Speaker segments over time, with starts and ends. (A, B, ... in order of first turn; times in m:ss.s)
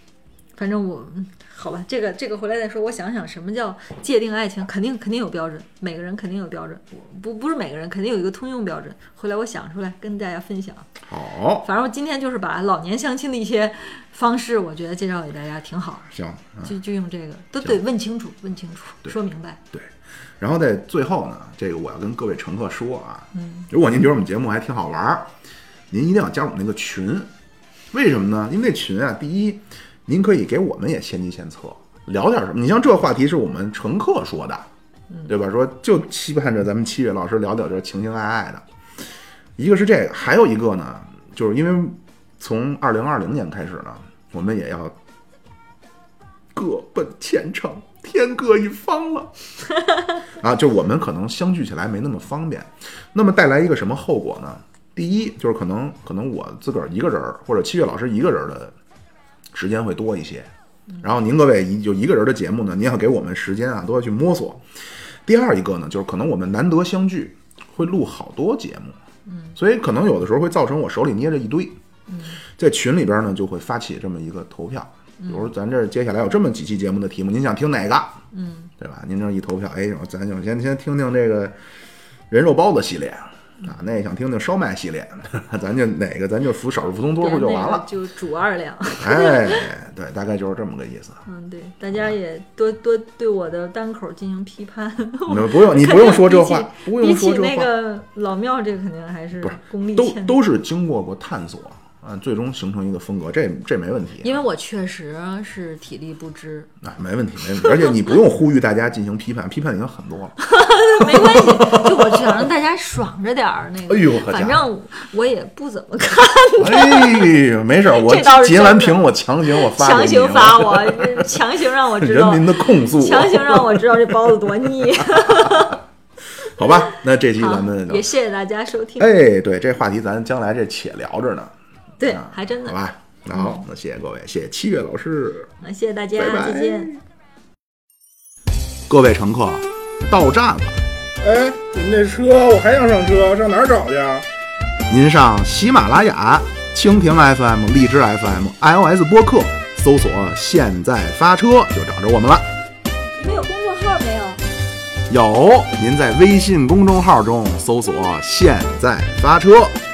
0:00.6-0:10.9 A
0:11.0-0:11.7 B
0:11.6-0:16.1 A
0:16.1-0:16.7 B
0:16.6-0:19.6 A
0:19.7-0:25.3 B
0:23.3-0:23.7 A
0:25.9-0:27.3 B
0:27.9-0:34.7 B
0:35.3-0:38.6 B
0:39.6-0:45.0 B
0:46.5-0:49.3 B
0:50.3-0:58.8 B
0:59.5-1:04.7 B
1:05.2-1:09.0 B
1:09.3-1:09.6 A
1:09.6-1:11.8 B
1:12.1-1:12.4 A
1:12.5-1:18.2 B
1:15.2-1:15.5 A
1:18.3-1:18.7 A
1:18.8-1:21.6 B
1:22.3-1:27.9 B
1:27.2-1:29.7 A
1:29.0-1:31.2 B
1:31.3-1:40.4 A
1:35.3-1:37.7 B
1:39.4-1:44.4 B
1:44.2-1:46.7 A
1:46.8-1:50.4 B
1:47.6-1:48.1 A
1:50.4-2:05.8 A
1:51.0-1:52.5 B
1:53.9-1:54.6 B
1:56.6-2:01.4 B
2:02.0-2:04.0 B
2:05.2-2:05.7 B
2:06.4-2:08.1 B
2:07.4-2:09.1 A
2:09.0-2:11.5 B
2:12.0-2:12.8 A
2:12.0-2:15.5 B
2:13.3-2:13.6 A
2:15.6-2:16.9 A
2:16.2-2:17.0 B
2:18.9-2:20.8 B
2:21.2-2:24.2 C
2:24.9-2:32.5 B
2:33.2-2:34.4 A
2:35.1-2:39.8 B